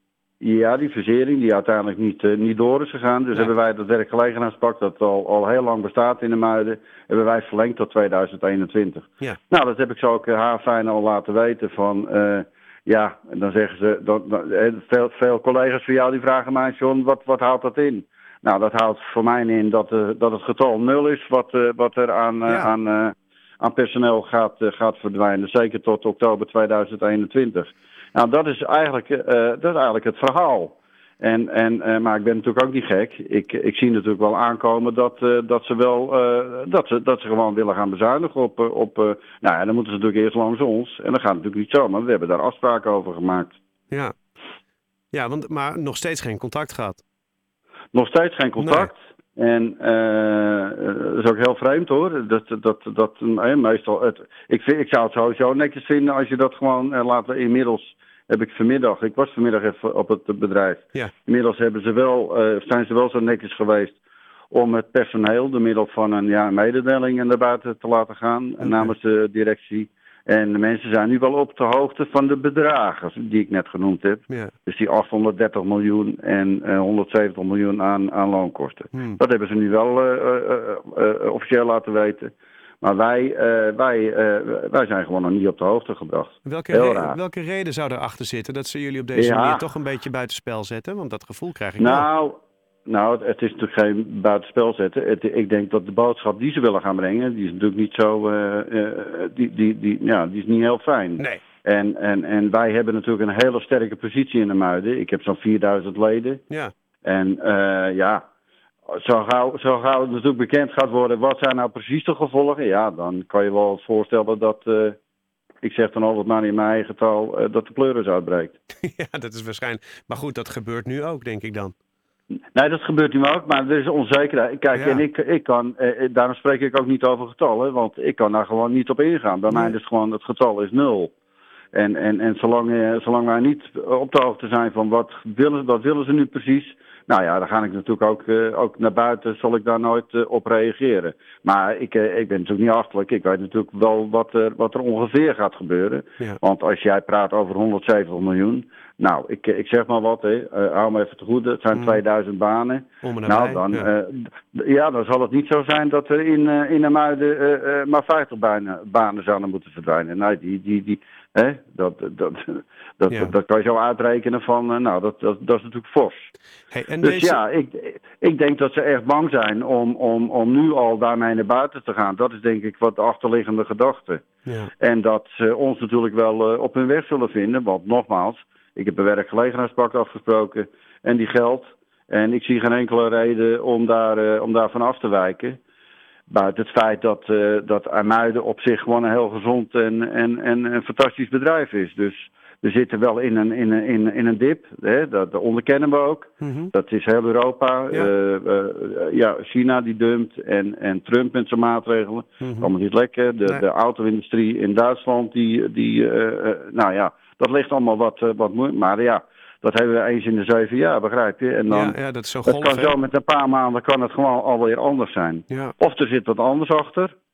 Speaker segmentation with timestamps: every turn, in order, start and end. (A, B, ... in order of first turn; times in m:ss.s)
0:00.4-0:43.6 A
0:45.1-0:47.0 B
0:47.9-1:04.0 A
0:48.6-0:48.9 B
1:04.5-1:22.3 A
1:08.6-1:08.9 B
1:22.8-1:27.2 A
1:26.4-1:32.1 B
1:29.2-1:29.6 A
1:31.8-1:46.4 A
1:47.0-1:48.2 A
1:48.9-1:55.0 A
1:55.6-1:58.6 A
1:58.8-2:01.7 B
2:02.5-2:11.1 A
2:04.7-2:05.0 B
2:11.7-2:46.3 A
2:33.0-2:33.9 B
2:46.7-2:47.4 B
2:47.0-2:54.2 A
2:54.8-3:05.6 A
3:06.3-3:37.1 A
3:16.4-3:16.7 B
3:22.4-3:22.7 B
3:31.7-3:32.9 B